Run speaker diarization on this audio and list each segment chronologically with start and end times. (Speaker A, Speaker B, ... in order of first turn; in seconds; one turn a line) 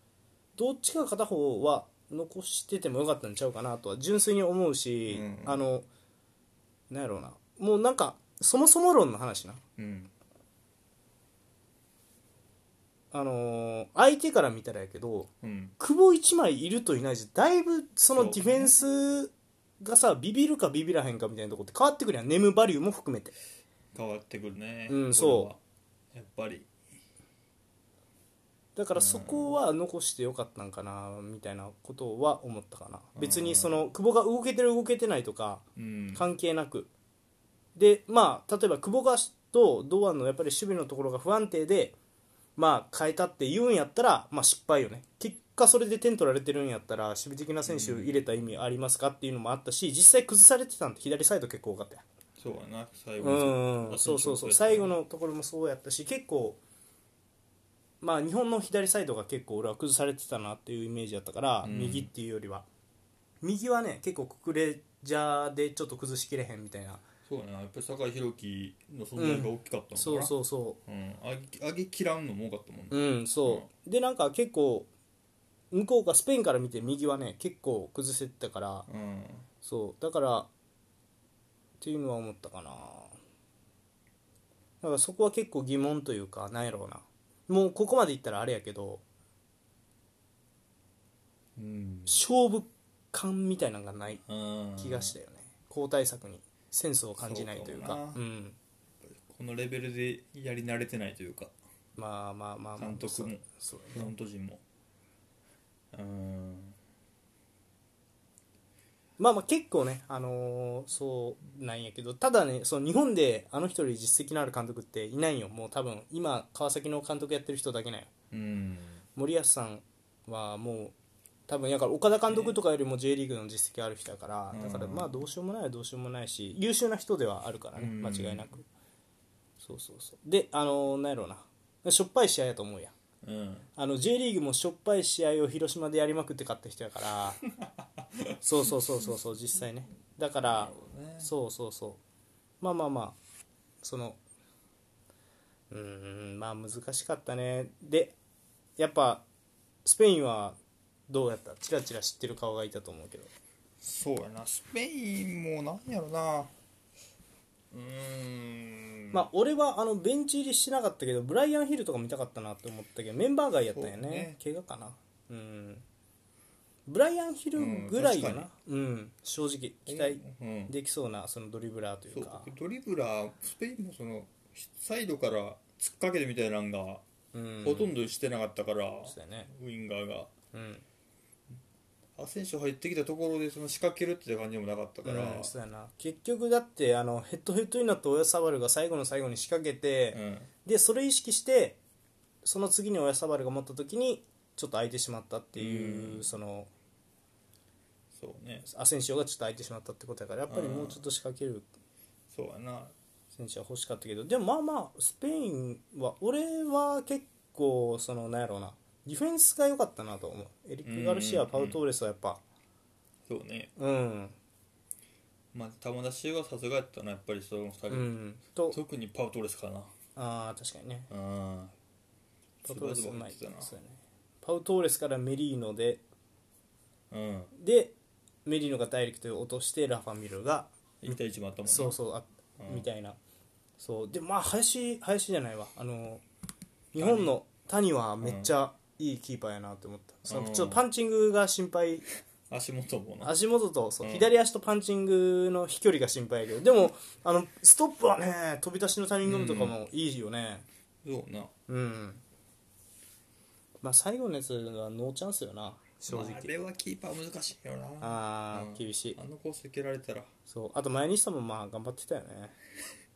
Speaker A: 0.6-5.9
Speaker B: 5.1-5.6
Speaker A: 6.9-9.6
Speaker B: 9.8-10.1
Speaker A: 13.1-23.3
Speaker B: 15.4-15.7
Speaker B: 18.1-18.7
Speaker B: 23.9-25.6
Speaker A: 24.9-25.5
Speaker B: 26.1-26.7
Speaker A: 28.8-36.9
Speaker B: 28.9-29.5
Speaker B: 33.1-33.9
Speaker B: 35.8-36.2
Speaker A: 37.8-42.0
Speaker A: 42.6-52.0
Speaker B: 47.6-48.2
Speaker B: 52.4-54.9
Speaker A: 53.2-56.6
Speaker A: 58.0-62.6
Speaker B: 61.6-62.1
Speaker A: 63.4-67.0
Speaker B: 67.2-70.3
Speaker A: 69.2-70.8
Speaker B: 70.8-73.7
Speaker A: 72.9-74.9
Speaker A: 75.7-78.9
Speaker B: 78.9-79.5
Speaker A: 79.6-80.5
Speaker A: 81.8-83.1
Speaker A: 84.8-89.0
Speaker B: 91.5-92.2
Speaker A: 92.1-94.2
Speaker B: 94.2-95.1
Speaker A: 94.8-98.6
Speaker B: 97.2-98.2
Speaker B: 99.0-101.5
Speaker A: 102.0-104.1
Speaker B: 102.8-104.6
Speaker B: 105.9-106.8
Speaker A: 109.2-118.1
Speaker B: 118.3-119.0
Speaker A: 119.2-120.9
Speaker A: 121.5-128.6
Speaker B: 122.3-122.6
Speaker B: 124.5-125.2
Speaker B: 127.7-128.6
Speaker A: 129.6-132.9
Speaker B: 133.2-133.7
Speaker A: 133.8-137.4
Speaker B: 137.5-138.8
Speaker A: 138.4-142.0
Speaker B: 140.4-141.3
Speaker A: 142.6-143.2
Speaker A: 143.8-144.2
Speaker A: 145.7-148.2
Speaker A: 148.8-149.2
Speaker A: 149.8-150.6
Speaker A: 151.1-153.3
Speaker B: 153.8-156.5
Speaker B: 157.7-159.2
Speaker A: 159.1-165.8
Speaker B: 163.7-164.4
Speaker A: 166.9-172.5
Speaker B: 167.6-168.5
Speaker B: 169.8-170.7
Speaker B: 172.1-177.0
Speaker A: 177.3-177.9
Speaker B: 177.6-180.3
Speaker A: 179.1-179.5
Speaker A: 180.5-180.8
Speaker B: 182.2-185.5
Speaker A: 185.0-191.8
Speaker B: 190.1-190.5
Speaker A: 192.4-196.7
Speaker B: 195.6-196.3
Speaker B: 198.1-198.7
Speaker A: 198.7-201.7
Speaker B: 200.5-201.0
Speaker B: 202.3-202.9
Speaker A: 203.3-212.4
Speaker B: 210.8-211.8
Speaker B: 213.3-213.7
Speaker A: 213.8-214.3
Speaker B: 215.5-218.1
Speaker A: 217.9-218.8
Speaker B: 218.7-219.9
Speaker A: 220.2-221.1
Speaker B: 221.1-221.7
Speaker B: 222.6-223.7
Speaker A: 222.6-226.0
Speaker B: 227.1-227.5
Speaker A: 227.5-233.2
Speaker B: 231.0-232.0
Speaker B: 232.6-232.9
Speaker A: 233.8-236.2
Speaker A: 236.9-242.1
Speaker B: 237.0-237.3
Speaker B: 238.2-238.5
Speaker B: 240.2-240.8
Speaker B: 242.5-243.3
Speaker A: 243.2-250.7
Speaker B: 244.0-244.3
Speaker B: 249.2-249.8
Speaker B: 251.0-251.5
Speaker A: 251.7-252.2
Speaker A: 253.8-256.5
Speaker B: 256.1-260.3
Speaker A: 258.0-259.2
Speaker A: 260.5-262.5